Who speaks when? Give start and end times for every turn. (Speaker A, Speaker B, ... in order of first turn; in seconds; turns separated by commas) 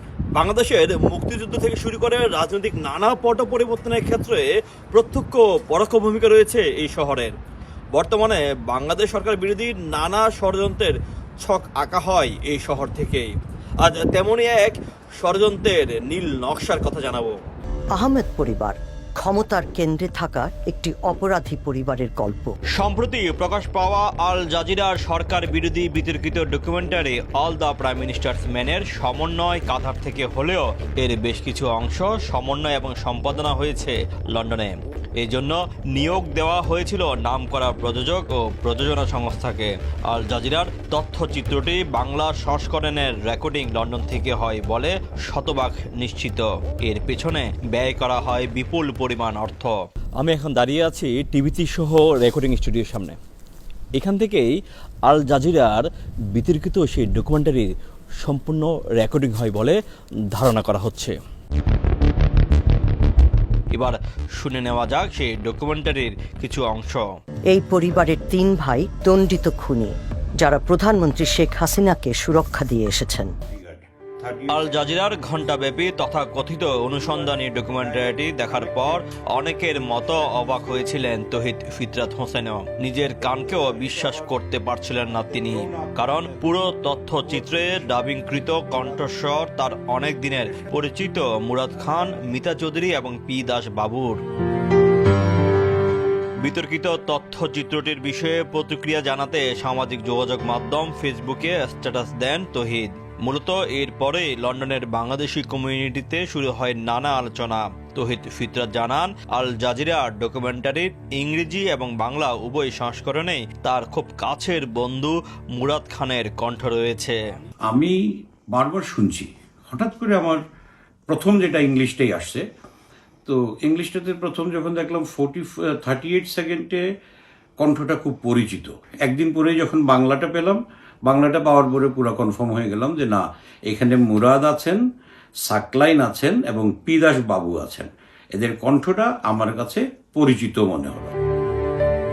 Speaker A: 0.3-7.3, Speaker A: 7.9-17.4, Speaker B: 17.9-22.5, Speaker A: 22.7-53.2, Speaker A: 54.0-54.5, Speaker A: 55.1-59.8, Speaker A: 60.3-61.1, Speaker A: 63.7-67.0, Speaker B: 67.5-73.3, Speaker C: 73.5-74.8, Speaker A: 74.5-94.2, Speaker C: 77.0-79.0, Speaker C: 83.2-84.3, Speaker C: 85.1-86.5, Speaker C: 87.1-88.1, Speaker C: 88.7-89.0, Speaker C: 90.4-90.7, Speaker A: 96.4-117.2, Speaker C: 117.7-118.0, Speaker C: 118.5-120.4, Speaker C: 121.1-122.4, Speaker C: 123.2-126.8, Speaker C: 127.6-134.8, Speaker C: 135.4-141.1